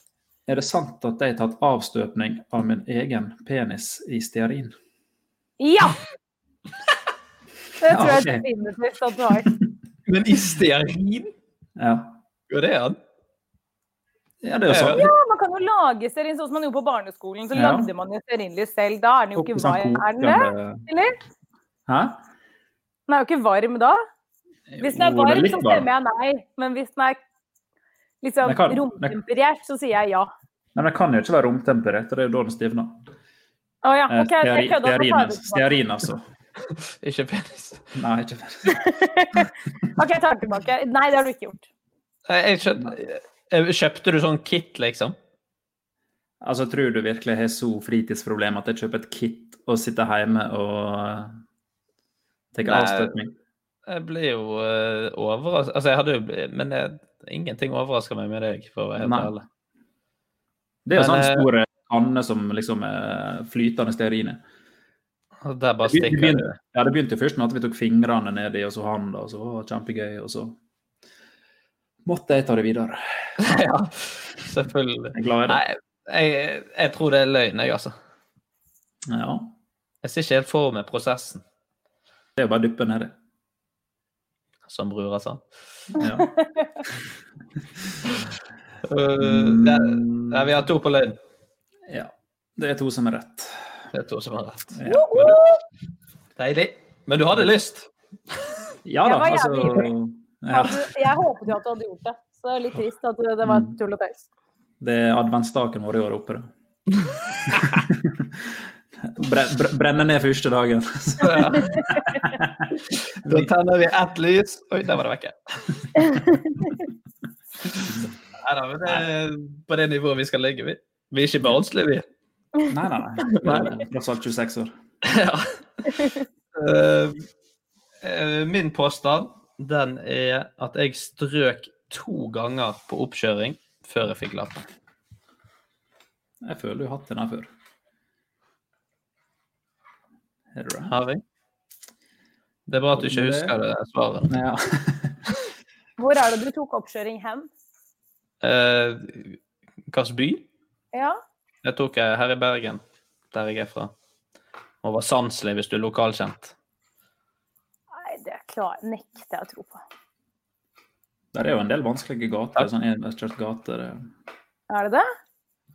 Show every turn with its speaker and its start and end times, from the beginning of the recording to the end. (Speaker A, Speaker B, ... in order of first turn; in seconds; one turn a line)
Speaker A: 0.5-4.7
Speaker B: 5.6-6.0
Speaker B: 7.8-9.5
Speaker A: 7.9-8.5
Speaker C: 10.1-11.3
Speaker A: 11.8-12.2
Speaker C: 12.5-13.0
Speaker A: 14.4-15.1
Speaker C: 14.7-15.1
Speaker B: 14.9-21.2
Speaker A: 17.6-17.9
Speaker A: 19.4-20.9
Speaker A: 21.9-22.2
Speaker B: 23.1-24.0
Speaker A: 24.7-25.9
Speaker B: 24.8-27.2
Speaker B: 28.2-30.3
Speaker A: 28.4-29.2
Speaker A: 30.8-33.0
Speaker B: 33.8-35.8
Speaker A: 34.1-36.2
Speaker C: 37.0-37.8
Speaker A: 38.0-38.9
Speaker B: 38.7-41.7
Speaker C: 42.3-45.1
Speaker A: 46.4-51.3
Speaker A: 52.5-53.3
Speaker C: 52.6-53.1
Speaker C: 53.9-59.4
Speaker A: 59.0-59.3
Speaker A: 60.9-64.4
Speaker C: 61.0-61.5
Speaker C: 65.4-66.5
Speaker A: 65.9-70.6
Speaker A: 72.1-73.0
Speaker C: 73.4-77.9
Speaker A: 75.2-75.6
Speaker A: 79.1-79.5
Speaker C: 80.0-81.4
Speaker A: 82.4-83.1
Speaker C: 84.7-85.4
Speaker A: 86.0-86.3
Speaker B: 86.2-86.7
Speaker C: 88.9-91.2
Speaker A: 89.2-90.6
Speaker A: 91.9-93.6
Speaker C: 93.9-94.8
Speaker A: 94.8-95.4
Speaker B: 94.9-95.6
Speaker C: 96.4-97.9
Speaker A: 98.8-101.0
Speaker B: 99.0-99.9
Speaker B: 100.5-104.2
Speaker A: 103.4-103.8
Speaker A: 104.8-106.5
Speaker A: 107.5-108.3
Speaker A: 109.0-113.5
Speaker C: 111.2-111.8
Speaker C: 113.2-116.1
Speaker C: 118.4-122.0
Speaker A: 122.7-124.7
Speaker C: 123.3-123.7
Speaker C: 125.0-127.3
Speaker C: 128.0-134.6
Speaker A: 136.4-137.5
Speaker A: 140.5-140.9
Speaker C: 140.9-141.2
Speaker C: 142.7-144.3
Speaker A: 142.9-143.6
Speaker A: 144.3-145.3
Speaker B: 146.0-147.5
Speaker C: 148.4-150.4
Speaker B: 150.9-151.2
Speaker C: 151.6-152.8
Speaker C: 153.3-153.9
Speaker C: 154.8-156.5
Speaker B: 157.9-159.8
Speaker A: 161.3-164.1
Speaker B: 164.7-165.1